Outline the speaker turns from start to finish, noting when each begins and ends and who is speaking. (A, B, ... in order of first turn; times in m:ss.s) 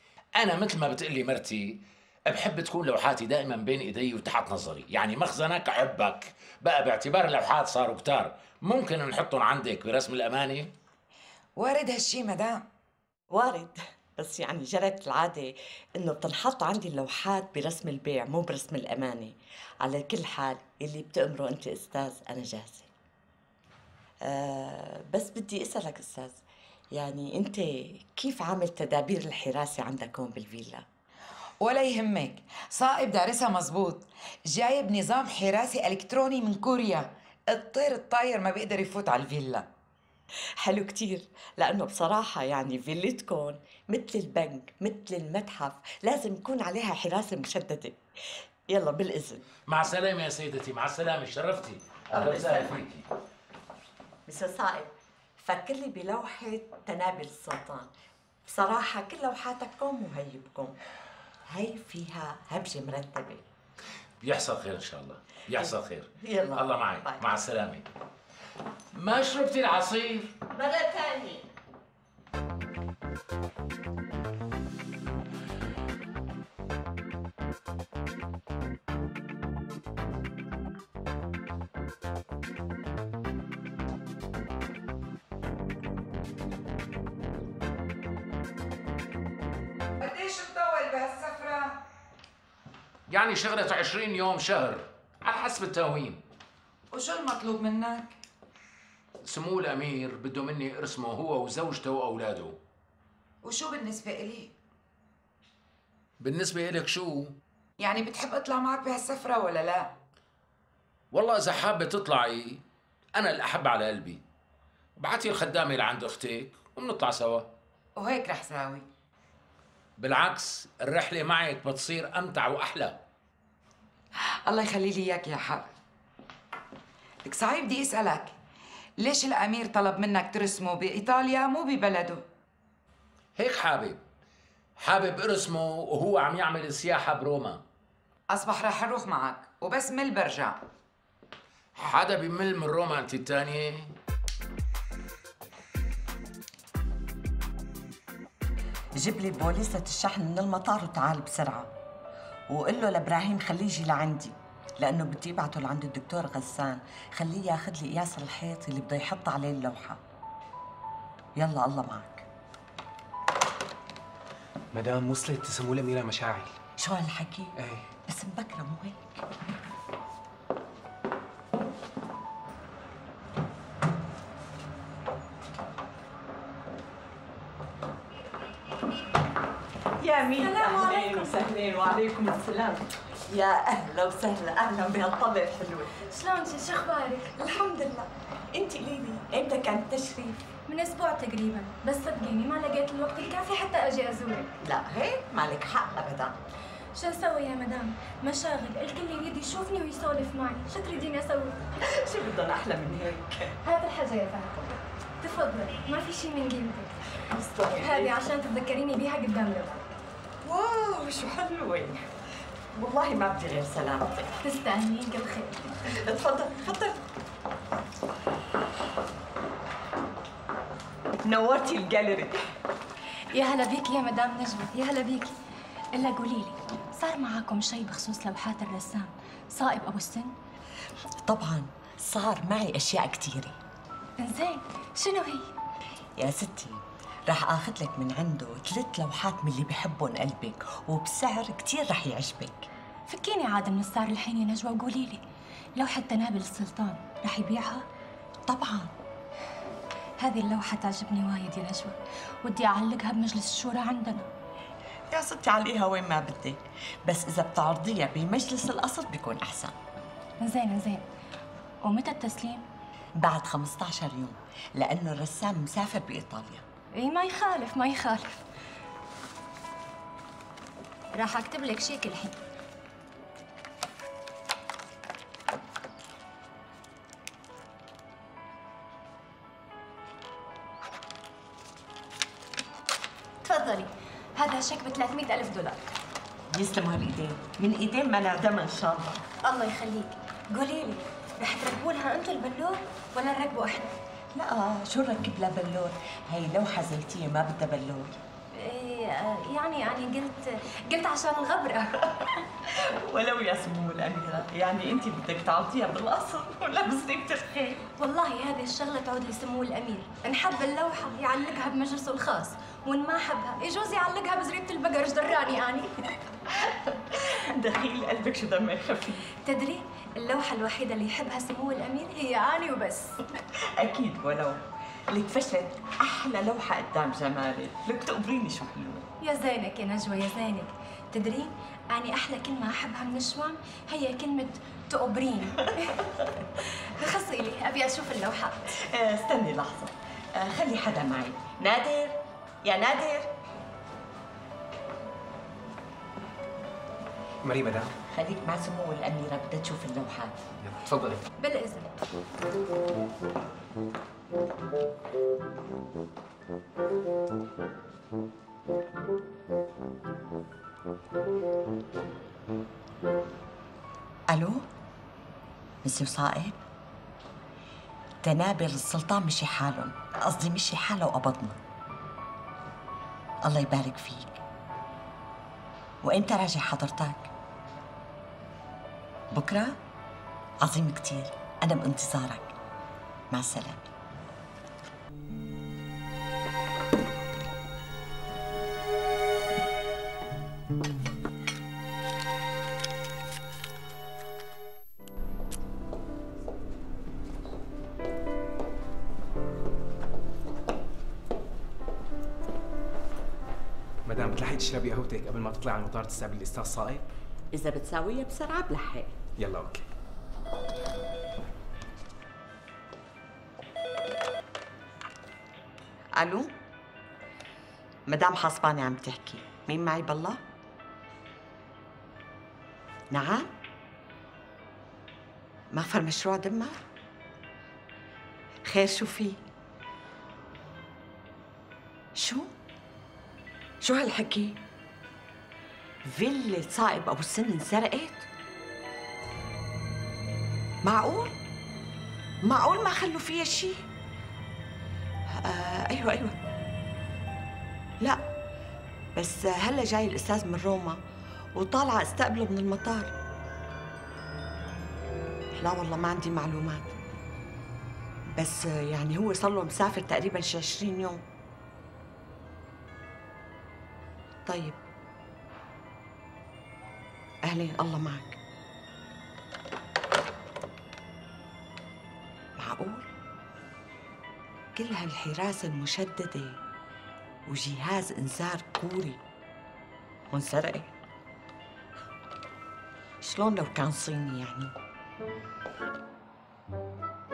0:00.4-0:10.7 A
0:11.6-0:12.6 B
0:13.3-0:22.9 C
0:24.2-0:26.4 C
0:26.9-0:30.8 C
0:31.6-0:39.7 B
0:40.6-0:48.0 C
0:48.7-0:49.4 C
0:49.7-0:53.1 A
0:52.1-0:52.8 C
0:54.3-0:57.9 C
0:58.5-1:00.8 C
1:01.5-1:03.5 C
1:04.2-1:07.9 A
1:06.2-1:07.2 C
1:08.9-1:10.3 A
1:10.5-1:11.5 C
1:30.0-1:31.8 B
1:33.1-1:36.2 A
1:36.9-1:38.1 B
1:39.2-1:42.6 A
1:43.4-1:44.5 B
1:46.2-1:47.4 A
1:47.8-1:49.9 B
1:51.1-1:52.6 A
1:53.2-1:54.2 A
1:55.0-1:57.5 A
1:58.0-1:58.8 B
2:00.0-2:03.0 A
2:04.2-2:05.7 B
2:07.2-2:08.3 B
2:09.0-2:12.2 B
2:13.4-2:14.0 A
2:14.8-2:17.6 A
2:18.3-2:20.6 B
2:21.8-2:24.0 A
2:29.0-2:31.7 C
2:32.5-2:40.0 C
2:41.4-2:42.3 C
2:44.7-2:46.6 D
2:46.8-2:47.5 C
2:47.6-2:47.8 D
2:48.1-2:49.2 C
3:00.0-3:05.9 C
3:00.4-3:01.4 E
3:06.0-3:07.4 E
3:07.4-3:10.4 C
3:10.7-3:14.5 E
3:14.6-3:16.4 C
3:17.0-3:21.6 E
3:21.8-3:23.5 C
3:23.6-3:24.6 E
3:25.2-3:26.9 E
3:27.3-3:28.2 C
3:27.7-3:29.8 E
3:30.4-3:32.0 C
3:32.7-3:34.3 C
3:34.4-3:35.7 E
3:35.8-3:37.0 C
3:41.2-3:42.4 C
3:43.3-3:45.4 E
3:45.9-3:50.3 E
3:51.2-3:53.6 C
3:54.2-3:55.5 E
3:56.2-4:02.7 C
4:03.1-4:05.2 E
4:05.8-4:07.8 E
4:08.5-4:08.9 C
4:10.2-4:14.3 E
4:15.1-4:19.8 C
4:20.4-4:21.1 E
4:21.8-4:22.6 E
4:23.2-4:26.6 C
4:27.0-4:28.4 E
4:31.1-4:32.4 E
4:43.4-4:45.8 E
4:46.5-4:49.2 C
4:49.4-4:53.9 E
4:54.4-4:58.2 C
4:58.6-5:02.1 E
5:02.1-5:07.8 C
5:08.0-5:16.0 E
5:16.5-5:19.3 C
5:19.4-5:23.2 E
5:23.6-5:29.1 C
5:29.2-5:38.7 E
5:38.8-5:43.3 C
5:47.4-5:47.9 D
5:48.1-5:50.3 C
5:50.6-5:51.2 D
5:51.4-5:52.0 E
6:04.3-6:04.7 C
6:05.8-6:06.6 C
6:08.2-6:11.6 C
6:13.4-6:14.4 C
6:16.0-6:17.3 C
6:19.3-6:19.8 C
6:20.6-6:22.5 C
6:23.3-6:23.8 C
6:44.0-6:47.1 D
6:47.5-6:49.1 C
6:49.4-6:49.9 D
6:56.2-6:56.5 C
6:58.1-7:00.4 C
7:03.1-7:03.5 C
7:05.7-7:06.8 C
7:08.7-7:09.4 C
7:12.2-7:12.5 C
7:13.8-7:14.6 C
7:16.1-7:18.3 C
7:20.8-7:21.4 C
7:22.4-7:23.8 C
7:25.3-7:26.4 C
7:29.2-7:31.0 C
7:31.6-7:33.1 C
7:35.6-7:36.9 C
7:38.4-7:41.2 C
7:44.5-7:44.8 C
7:47.4-7:48.4 C
7:52.6-7:53.1 C
7:54.8-7:56.6 C
7:57.5-7:59.2 C
8:00.3-8:00.9 C
8:03.2-8:04.7 C